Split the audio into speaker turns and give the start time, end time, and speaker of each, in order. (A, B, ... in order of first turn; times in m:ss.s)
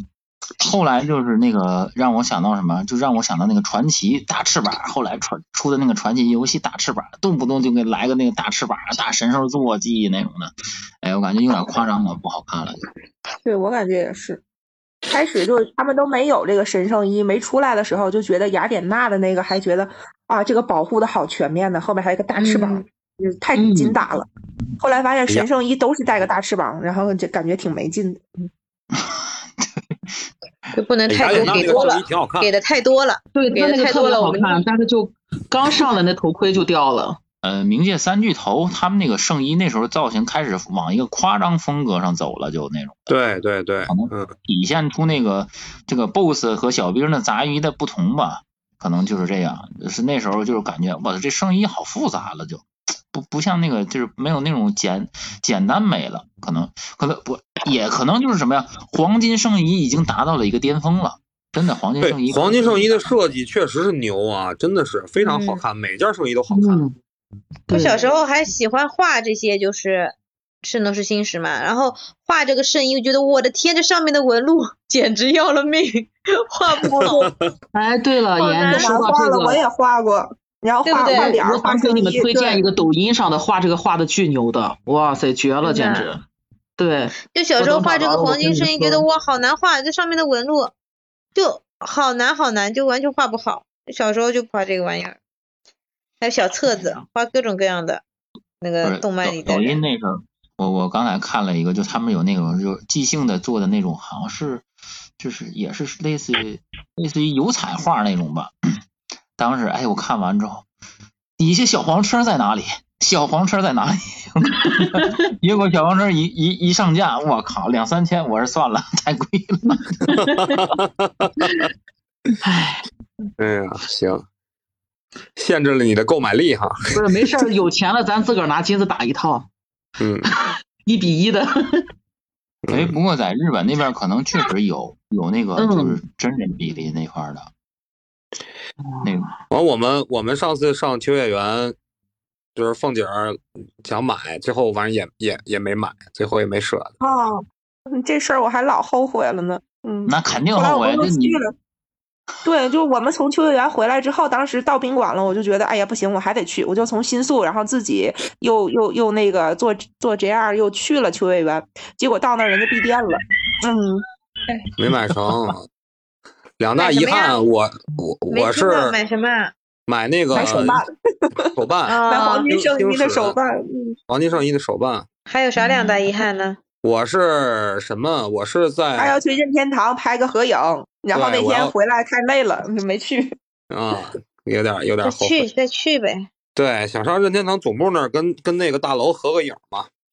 0:00.6-0:12.8 A
0:13.4-0:14.4 B
0:15.1-0:24.3 B
0:22.4-0:22.8 C
0:23.6-0:24.0 D
0:24.8-0:28.2 B
0:28.9-0:29.9 A
0:30.7-0:34.6 C
0:31.1-0:32.5 E
0:33.3-0:37.2 D
0:37.4-0:43.1 A
0:43.1-0:44.3 E
0:43.9-1:03.2 A
1:02.0-1:06.8 E
1:05.2-1:05.6 C
1:06.5-1:07.0 D
1:07.7-1:08.0 D
1:07.7-1:17.3 C
1:17.7-1:19.6 D
1:18.4-1:19.0 C
1:18.7-1:22.6 B
1:20.8-1:21.4 C
1:21.1-1:26.2 D
1:25.6-1:26.1 C
1:26.8-1:29.0 D
1:27.3-1:30.7 C
1:31.3-1:35.2 C
1:36.2-1:38.0 C
1:38.6-1:39.8 C
1:38.8-1:44.6 A
1:45.2-1:48.5 A
1:49.4-1:50.6 A
1:51.4-2:00.3 A
2:00.1-2:01.6 E
2:02.4-2:02.8 D
2:03.4-2:04.2 E
2:05.4-2:07.1 E
2:06.9-2:09.5 D
2:10.0-2:10.3 E
2:10.3-2:11.8 D
2:12.6-2:12.9 E
2:12.7-2:17.5 A
2:15.6-2:16.0 D
2:19.0-2:19.4 A
2:19.5-2:21.7 E
2:22.6-2:26.9 E
2:27.0-2:31.5 B
2:30.0-2:31.4 A
2:32.4-2:44.0 B
2:44.8-2:45.6 E
2:46.6-2:48.9 E
2:46.8-2:47.4 C
2:48.3-2:49.5 C
2:49.9-2:50.8 E
2:50.3-2:51.5 B
2:51.5-2:53.4 E
2:51.9-2:52.5 C
2:52.0-2:54.0 B
2:54.1-2:55.0 E
2:55.3-2:56.6 C
2:56.8-2:59.2 E
2:59.0-3:03.4 B
3:01.1-3:01.7 E
3:03.7-3:05.5 E
3:05.0-3:06.3 C
3:06.6-3:09.9 E